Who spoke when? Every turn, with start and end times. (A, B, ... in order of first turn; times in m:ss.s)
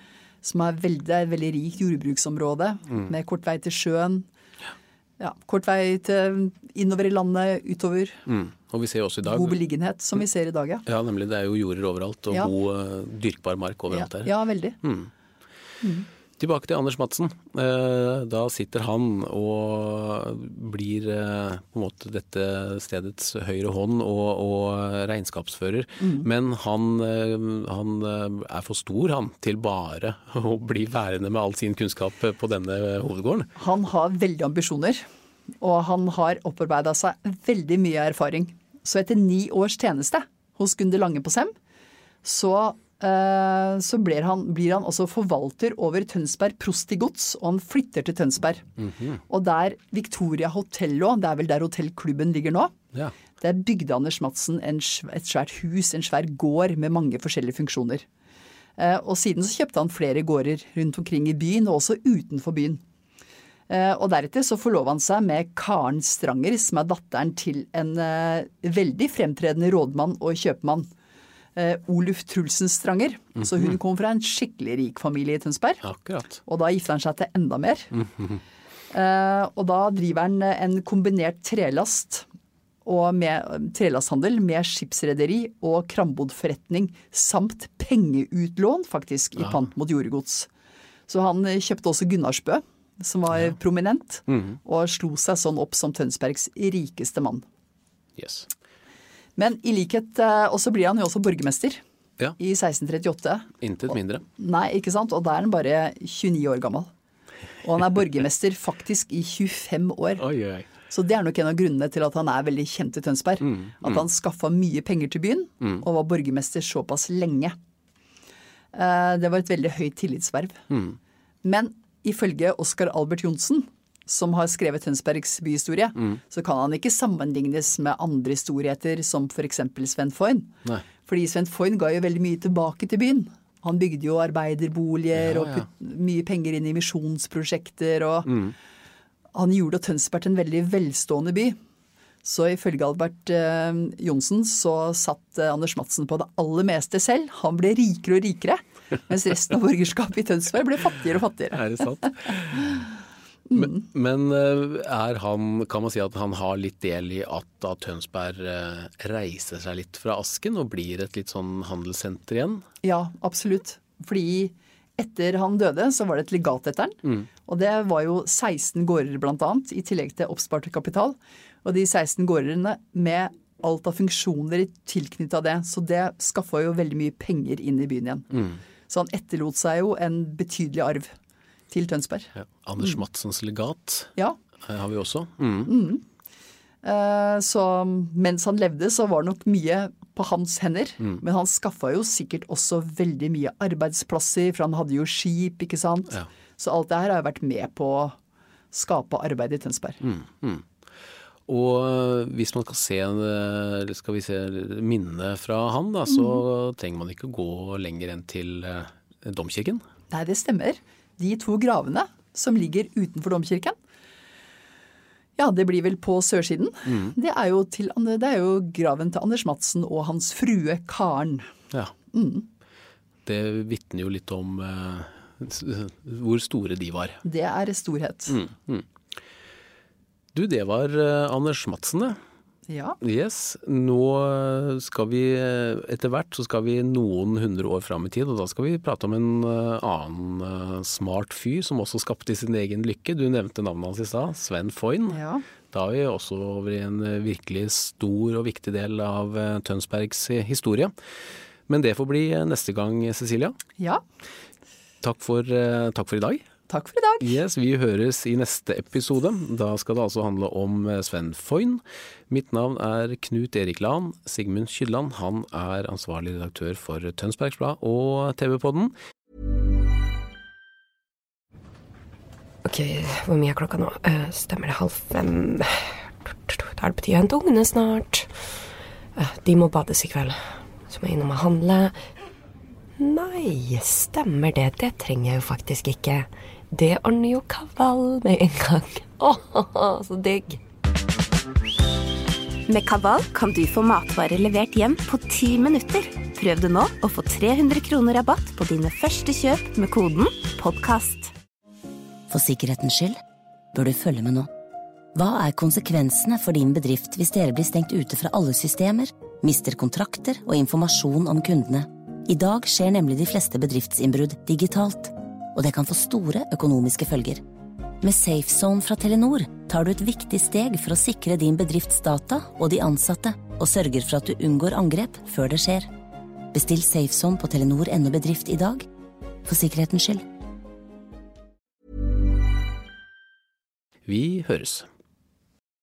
0:00.4-0:04.3 A
0:05.2-0:08.2 A
0:08.3-0:09.6 B
0:09.2-0:10.8 A
0:10.9-0:15.1 B
0:13.9-0:14.8 A
0:15.8-0:16.1 A
0:16.4-0:33.5 B
0:26.0-0:26.3 A
0:33.6-0:35.0 A
0:35.6-0:41.5 A
0:42.2-0:48.6 A
0:48.8-0:49.2 B
0:49.3-0:52.7 A
0:53.4-0:58.0 A
0:58.8-1:02.8 A
1:03.7-1:10.9 A
1:11.6-1:15.8 A
1:15.8-1:16.4 B
1:16.4-1:17.9 A
1:18.0-1:18.4 B
1:18.9-1:22.3 A
1:22.8-1:30.5 A
1:31.1-1:37.4 A
1:34.3-1:34.6 B
1:38.2-1:38.5 B
1:39.4-1:41.8 A
1:42.4-1:43.5 A
1:43.6-1:44.2 B
1:44.4-1:46.9 A
1:47.6-1:50.2 A
1:50.2-1:50.7 B
1:50.9-1:57.6 A
1:53.4-1:54.0 B
1:58.7-2:00.6 A
2:00.7-2:01.0 B
2:01.4-2:18.4 A
2:15.1-2:15.7 B
2:19.3-2:21.6 A
2:22.2-2:31.8 A
2:31.5-2:32.8 B
2:33.5-2:42.6 B
2:42.8-3:01.1 A
3:01.7-3:03.0 A
3:02.4-3:04.1 B
3:04.7-3:05.7 B
3:05.7-3:06.0 A
3:06.8-3:18.2 A
3:18.7-3:20.0 A
3:20.0-3:20.6 B
3:21.5-3:29.8 B
3:26.1-3:26.4 A
3:30.1-3:33.8 A
3:35.4-3:41.5 A
3:42.1-3:42.5 A
3:43.3-3:47.2 B
3:47.2-3:48.4 A
3:48.3-3:48.8 B
3:50.4-3:52.2 B
3:52.7-3:53.0 A
3:53.0-4:05.2 B
4:05.1-4:05.4 A
4:05.7-4:10.9 B
4:11.7-4:13.6 B
4:15.0-4:16.4 B
4:16.7-4:17.4 A
4:17.2-4:28.9 B
4:32.6-4:35.8 C
4:36.5-4:38.3 C
4:39.2-4:40.4 C
4:40.9-4:42.0 C
4:43.0-4:50.6 C
4:52.7-5:01.3 D
5:02.3-5:03.2 E
5:03.7-5:04.5 E
5:05.2-5:17.4 E
5:18.0-5:25.9 E
5:26.5-5:28.9 E
5:29.5-5:30.2 E
5:34.1-5:34.9 B